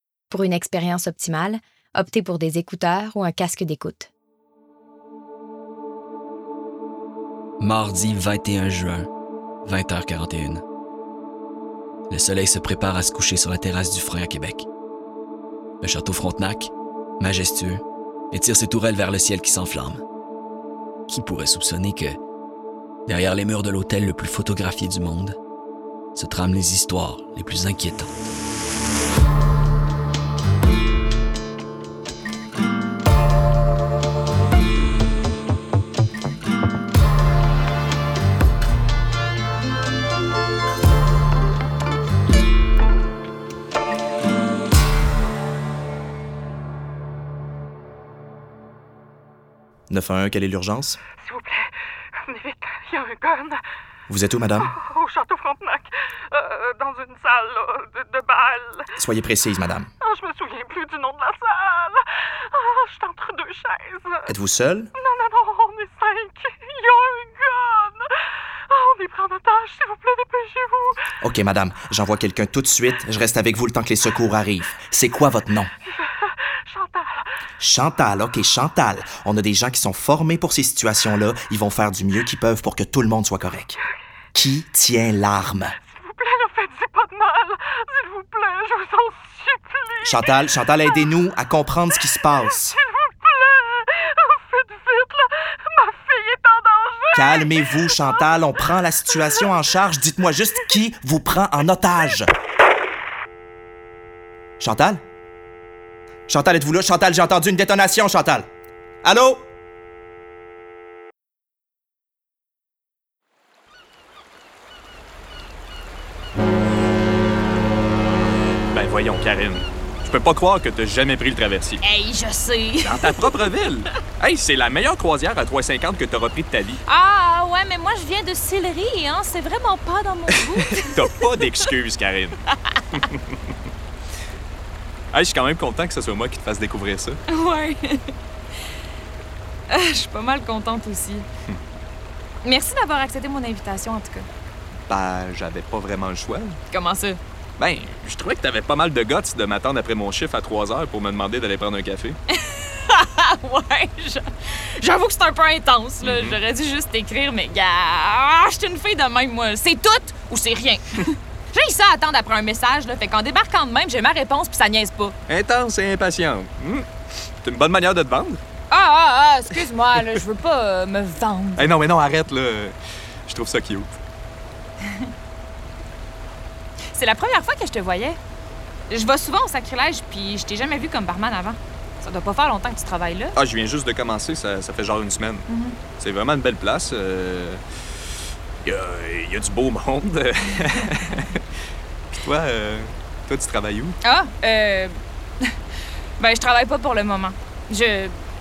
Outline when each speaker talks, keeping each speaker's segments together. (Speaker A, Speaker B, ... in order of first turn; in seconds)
Speaker A: 0.3-4.1
Speaker B: 7.6-9.1, 9.6-10.6, 12.1-14.7, 15.8-20.0, 21.1-22.2, 23.1-25.4, 26.1-28.2
Speaker C: 49.9-51.0, 54.1-54.7, 59.0-59.9, 64.3-64.9, 71.2-75.7, 77.6-83.8, 84.3-85.8, 90.0-92.8, 97.1-102.3, 104.6-105.0, 106.3-108.5, 109.0-109.4
Speaker D: 51.3-51.6, 52.3-53.6, 54.9-55.8, 56.4-58.8, 60.1-62.0, 62.6-64.2, 65.1-68.0, 68.7-71.0, 86.4-87.5, 88.1-90.0, 94.5-95.2
Speaker E: 118.7-121.8, 122.8-126.8, 130.7-132.4, 132.9-133.4, 135.1-137.2, 144.9-146.6, 147.6-152.2, 156.0-156.4, 165.3-166.9, 167.4-168.4, 171.6-172.8, 173.3-174.0, 183.3-185.4, 186.0-187.6, 188.6-191.4, 192.1-194.0
Speaker F: 121.8-123.4, 126.9-131.1, 137.3-138.2, 139.7-141.3, 142.4-144.3, 146.7-147.2, 152.3-165.2, 168.7-171.7, 176.9-178.2, 178.9-183.3, 185.5-185.8, 194.0-195.5, 196.2-198.2